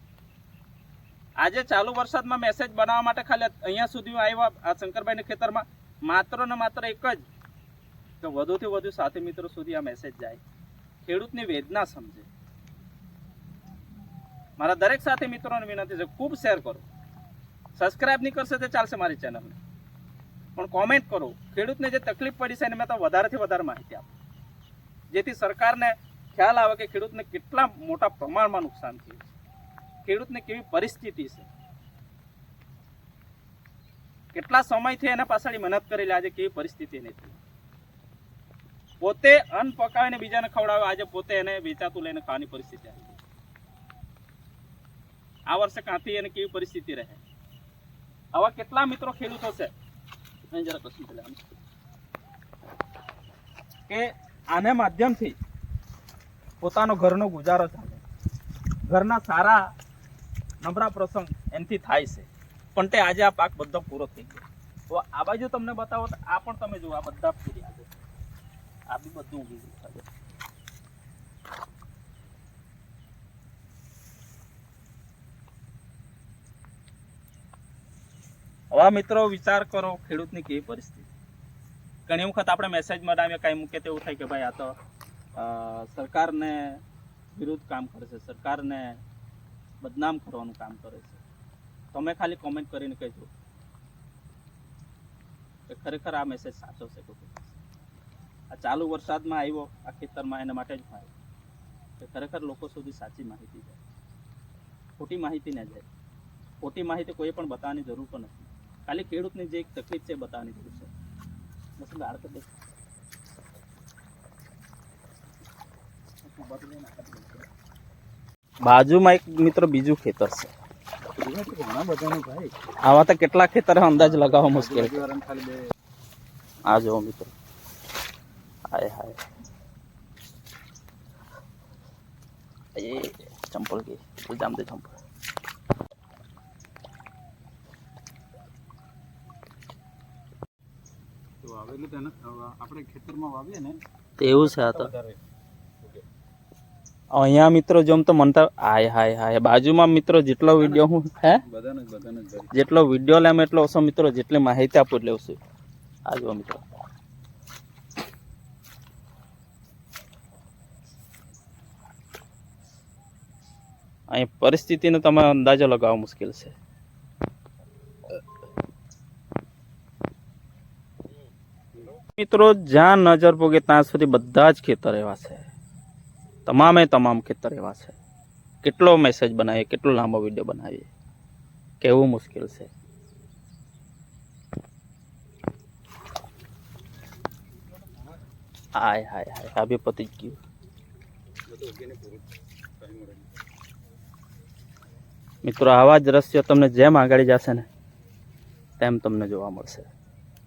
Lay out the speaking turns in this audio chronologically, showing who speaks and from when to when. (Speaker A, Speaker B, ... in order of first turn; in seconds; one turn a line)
Speaker A: 1.4-7.2
Speaker A: 8.2-10.4
Speaker A: 11.1-12.3
Speaker A: 14.6-16.8
Speaker A: 17.8-19.6
Speaker A: 20.6-24.1
Speaker A: 25.1-29.3
Speaker A: 30.0-31.5
Speaker A: 34.3-37.4
Speaker A: 39.0-43.2
Speaker A: 45.5-47.2
Speaker A: 48.3-49.7
Speaker A: 50.5-51.4
Speaker A: 53.9-55.4
Speaker A: 56.6-58.0
Speaker A: 58.9-59.7
Speaker A: 60.6-67.9
Speaker A: 68.9-70.1
Speaker A: 78.7-81.1
Speaker A: 82.1-84.7
Speaker A: 85.3-86.8
Speaker A: 87.3-89.0
Speaker A: 89.8-91.2
Speaker A: 91.9-93.3
Speaker A: 95.7-97.6
Speaker A: 98.5-101.1
Speaker A: 102.0-103.8
Speaker A: 105.0-105.8
Speaker A: 106.6-110.9
Speaker A: 111.8-112.5
Speaker A: 116.2-117.5
Speaker A: 118.6-120.5
Speaker B: 121.1-122.5
Speaker A: 122.8-125.0
Speaker B: 124.0-125.6
Speaker A: 126.7-127.3
Speaker A: 128.7-129.2
Speaker A: 132.8-134.9
Speaker B: 141.4-145.2
Speaker A: 144.2-144.9
Speaker A: 147.1-151.4
Speaker B: 150.6-150.8
Speaker B: 151.4-152.5
Speaker A: 152.5-155.4
Speaker A: 156.1-156.6
Speaker A: 164.1-166.6
Speaker A: 172.2-175.5
Speaker A: 176.4-177.9
Speaker A: 178.6-180.9
Speaker A: 181.8-182.7
Speaker A: 188.8-190.4
Speaker B: 191.5-192.3
Speaker B: 192.8-193.2
Speaker A: 195.4-197.7
Speaker A: 198.8-199.9